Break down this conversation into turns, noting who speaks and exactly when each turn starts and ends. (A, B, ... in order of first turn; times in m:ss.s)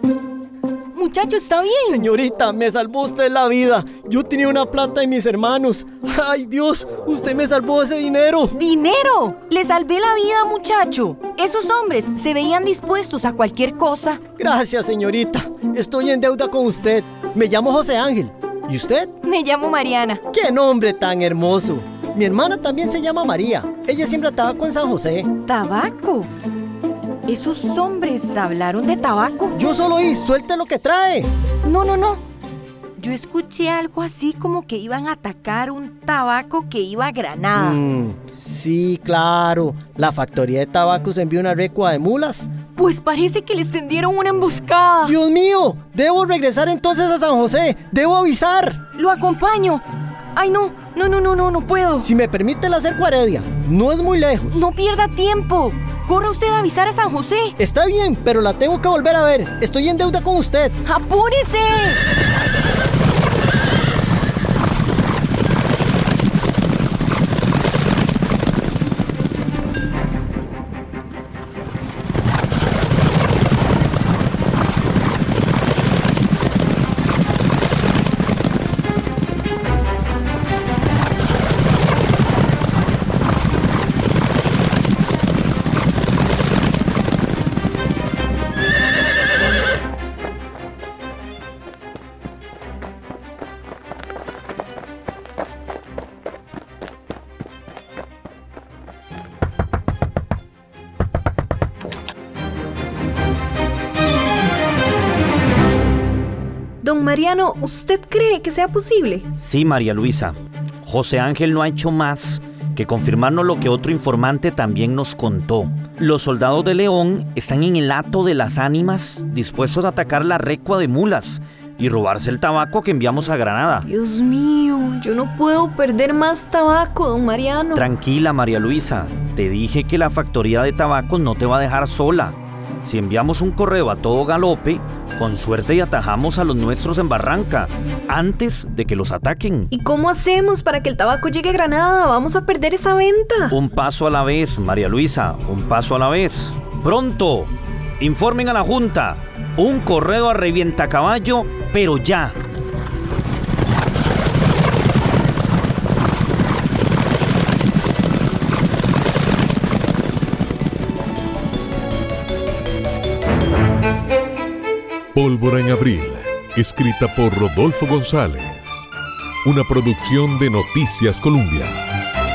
0:01.0-0:02.1 A
0:01.9-0:08.6 B
0:08.6-0:14.2 A
0:14.4-0:19.1 B
0:19.2-0:20.2 A
0:20.3-0:25.3 B
0:25.4-0:26.3 A
0:27.3-0:29.6 A
0:29.5-0:31.3 B
0:31.6-0:32.2 A
0:33.0-0:37.8 A
0:37.6-0:42.5 B
0:42.8-0:45.2 A
0:45.0-0:48.8 B
0:49.0-0:49.8 A
0:50.4-0:52.1 A
0:52.0-0:54.6 B
0:54.5-0:57.6 A
0:57.6-1:00.8 B
1:00.8-1:02.0 A
1:46.8-1:49.3 C
1:49.3-2:03.9 D
2:03.9-2:07.8 C
2:07.8-2:19.7 D
2:19.7-2:23.6 C
2:23.5-2:32.4 D
2:45.1-2:48.9 E
2:49.4-2:51.8 E